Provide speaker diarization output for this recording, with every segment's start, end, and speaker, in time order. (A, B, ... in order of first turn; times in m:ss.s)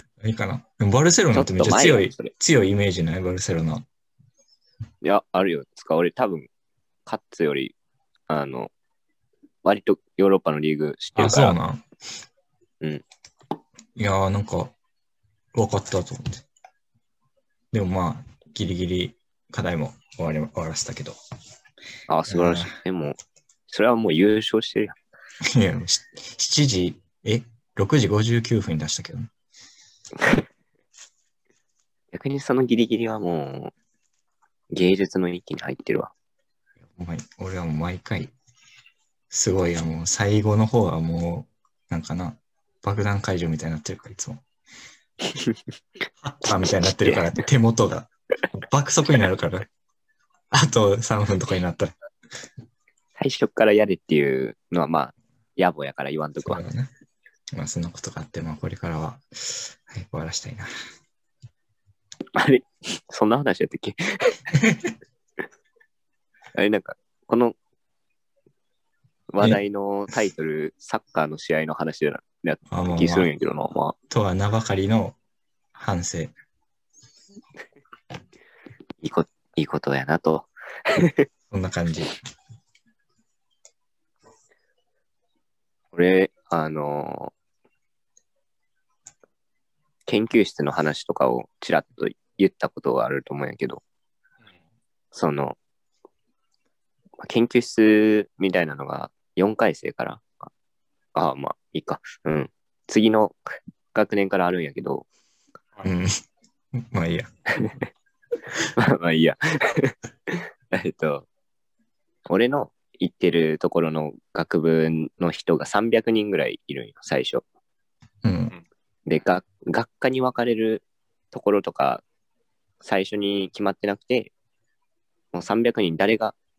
0:00.2-0:03.8 A
0:01.3-0:02.3 B
0:05.0-0:06.5 B
0:07.0-0:07.7 B
0:08.3-0:08.7 B
0:09.6-0:11.6 B
0:11.1-0:11.8 A
0:14.0-0:14.7 A
0:15.5-0:16.4 A
0:17.7-0:21.2 A
0:22.1-0:23.2 B
0:22.3-0:22.7 A
0:23.7-0:25.0 B
0:25.5-0:29.3 A
0:32.1-0:33.7 B
0:34.7-0:36.1 B
0:36.8-0:38.3 A
0:39.3-0:44.4 A
0:46.2-0:49.7 A
0:46.6-0:47.2 B
0:50.5-0:51.9 A
0:53.2-0:56.6 B
0:56.4-0:56.9 A
0:57.5-1:00.7 A
1:02.3-1:04.4 B
1:04.6-1:04.9 A
1:06.5-1:07.5 B
1:09.3-1:13.9 B
1:12.7-1:13.3 A
1:14.1-1:15.2 A
1:15.7-1:16.3 A
1:19.0-1:21.3 B
1:21.5-1:22.1 A
1:25.9-1:27.3 B
1:30.1-1:33.8 B
1:35.1-1:35.6 B
1:37.2-1:40.5 B
1:41.1-1:43.4 B
1:43.9-1:45.0 B
1:45.8-1:46.1 A
1:46.8-1:47.3 A
1:48.6-1:51.2 B
1:52.3-1:57.4 B
1:58.2-1:58.5 A
1:59.1-2:02.0 B
2:02.8-2:04.3 B
2:05.3-2:06.3 B